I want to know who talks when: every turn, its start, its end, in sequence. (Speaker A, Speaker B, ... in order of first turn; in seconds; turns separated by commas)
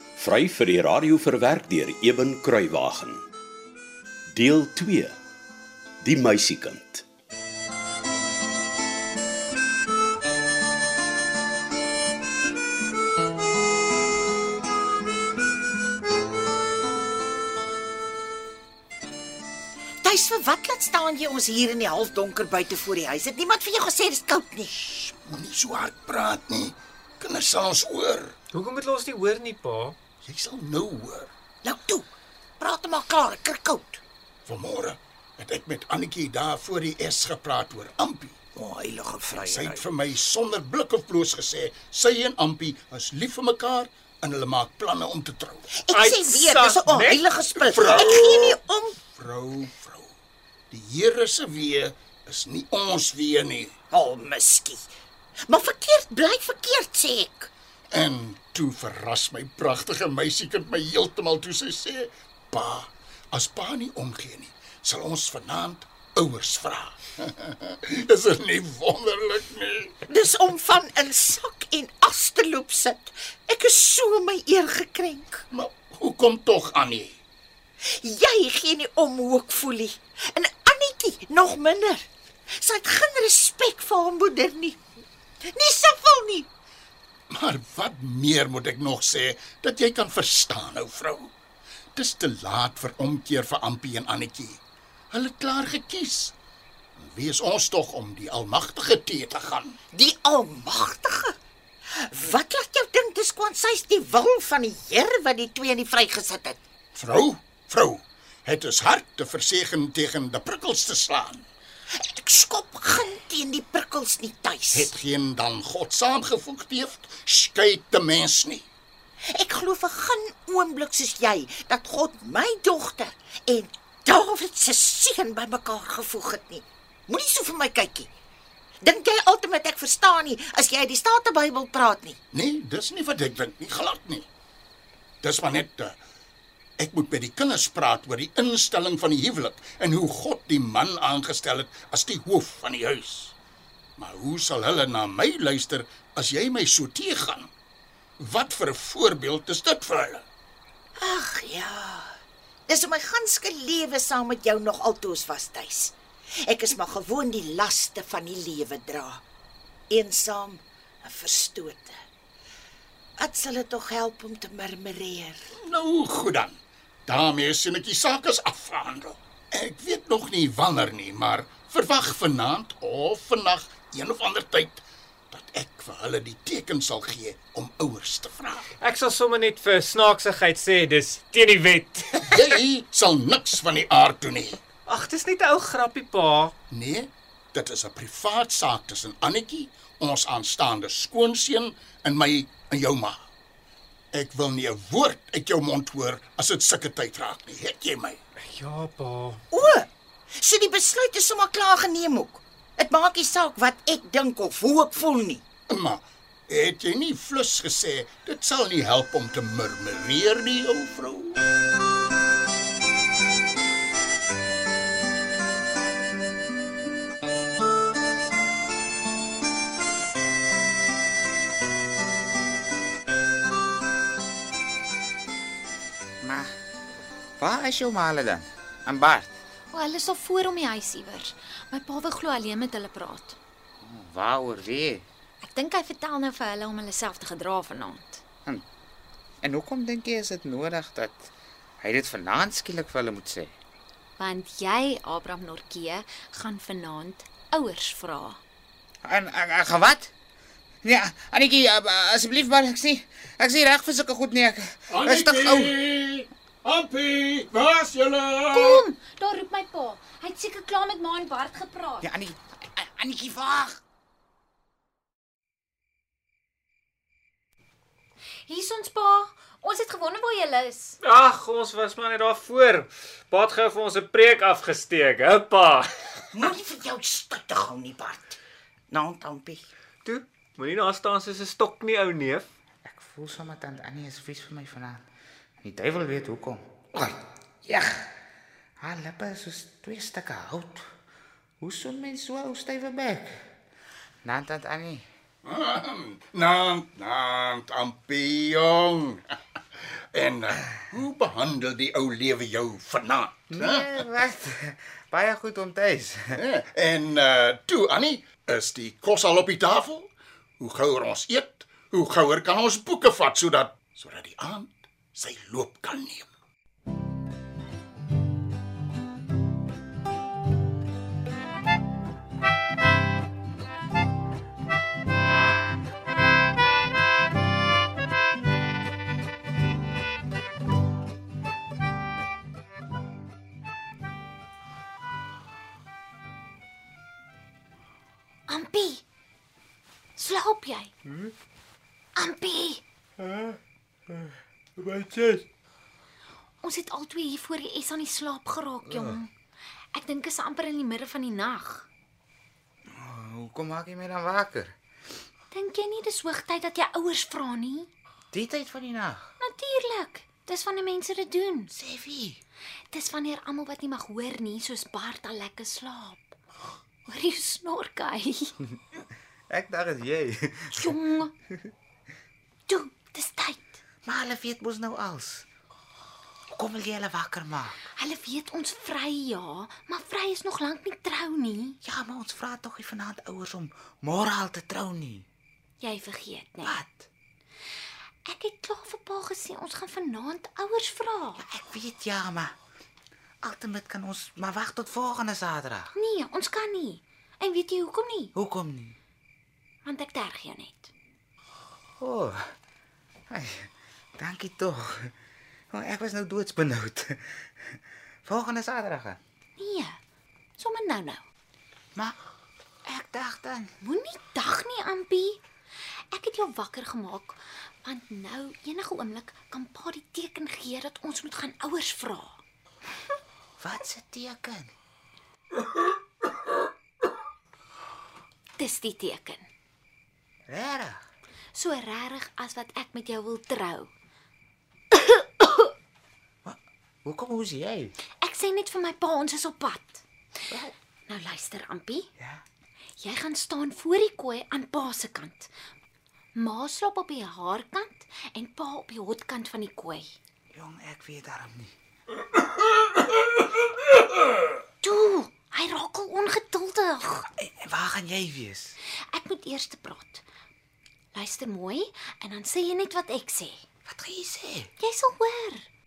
Speaker A: 0.1-3.2, Speaker A: 4.3-5.1, Speaker A: 6.0-7.0, Speaker B: 20.0-24.9, Speaker C: 24.9-28.4, Speaker D: 28.5-30.0, Speaker C: 30.2-31.3, Speaker B: 31.6-34.0, Speaker C: 34.4-38.4, Speaker B: 38.5-39.8, Speaker C: 39.5-45.7, Speaker B: 45.7-49.0, Speaker D: 45.9-47.2, Speaker C: 47.5-48.6, Speaker C: 49.1-50.1, Speaker C: 50.7-53.7, Speaker B: 53.9-54.9, Speaker B: 55.5-57.5, Speaker C: 57.9-70.0, Speaker B: 70.1-75.4, Speaker C: 75.5-77.2, Speaker B: 77.8-84.8, Speaker B: 85.4-86.5, Speaker C: 87.3-91.3, Speaker C: 91.9-96.3, Speaker C: 97.0-99.8, Speaker B: 99.9-101.3, Speaker B: 102.0-106.6, Speaker C: 106.9-111.5, Speaker B: 111.9-114.9, Speaker C: 114.7-118.7, Speaker B: 119.3-128.1, Speaker B: 128.8-132.2, Speaker C: 132.3-134.3, Speaker C: 135.2-136.0, Speaker C: 136.8-143.3, Speaker C: 144.0-147.5, Speaker C: 148.2-150.2, Speaker B: 151.0-152.1, Speaker B: 152.7-159.2, Speaker B: 159.9-161.9, Speaker B: 163.2-165.4, Speaker C: 165.6-178.7, Speaker D: 178.8-182.6, Speaker C: 182.3-184.6, Speaker D: 184.8-186.5, Speaker C: 186.7-193.2, Speaker C: 194.1-198.2, Speaker D: 198.4-199.4, Speaker B: 199.5-205.4, Speaker C: 205.7-211.4, Speaker E: 226.2-226.5, Speaker E: 227.4-229.3, Speaker F: 229.7-233.4, Speaker E: 233.8-235.1, Speaker F: 235.4-238.2, Speaker E: 239.4-241.3, Speaker E: 241.8-243.6, Speaker F: 244.2-248.4, Speaker E: 249.0-250.1, Speaker E: 250.8-255.8, Speaker C: 254.9-258.8, Speaker F: 258.5-262.1, Speaker E: 262.0-263.8, Speaker F: 268.4-271.0, Speaker D: 271.0-275.9, Speaker B: 276.3-278.4, Speaker B: 278.9-279.7, Speaker D: 280.0-282.5, Speaker E: 282.8-285.1, Speaker E: 285.6-288.1, Speaker E: 288.8-290.8, Speaker E: 291.6-293.5, Speaker E: 294.2-295.0, Speaker C: 295.4-304.0, Speaker E: 303.5-306.4, Speaker C: 306.4-316.3, Speaker F: 338.5-339.0, Speaker F: 340.1-340.9, Speaker F: 342.1-342.8, Speaker D: 344.8-345.4, Speaker F: 346.6-349.3, Speaker E: 348.9-349.2, Speaker F: 349.9-351.9, Speaker E: 353.0-354.7, Speaker F: 355.5-357.9, Speaker E: 358.3-359.3, Speaker F: 359.4-361.7, Speaker E: 361.7-362.4, Speaker F: 362.9-366.3, Speaker F: 367.1-368.5, Speaker E: 369.5-370.9, Speaker F: 370.7-371.3, Speaker F: 372.7-373.8, Speaker E: 374.0-375.5, Speaker E: 376.6-377.8, Speaker F: 377.8-381.8, Speaker E: 381.8-385.2, Speaker F: 385.8-386.8, Speaker E: 386.6-387.1, Speaker F: 388.2-391.4, Speaker E: 391.4-392.5, Speaker E: 393.4-395.9, Speaker F: 395.9-398.3, Speaker E: 398.3-398.9, Speaker F: 399.8-400.9, Speaker E: 402.0-402.5, Speaker E: 403.3-405.1, Speaker E: 405.7-409.2, Speaker F: 409.6-410.0, Speaker F: 410.6-411.2, Speaker E: 412.9-413.7, Speaker F: 413.8-415.4, Speaker F: 416.1-422.4, Speaker E: 423.6-424.7, Speaker F: 428.6-429.5, Speaker E: 430.5-431.0, Speaker F: 431.5-433.9, Speaker F: 434.9-435.7, Speaker E: 436.4-437.9, Speaker F: 438.2-440.0, Speaker F: 441.1-442.1, Speaker F: 443.0-445.5, Speaker F: 446.3-450.1, Speaker E: 450.5-451.7, Speaker F: 454.8-457.3, Speaker E: 457.4-458.8, Speaker F: 459.1-460.2, Speaker F: 461.1-463.6, Speaker E: 463.9-464.7, Speaker F: 464.8-465.7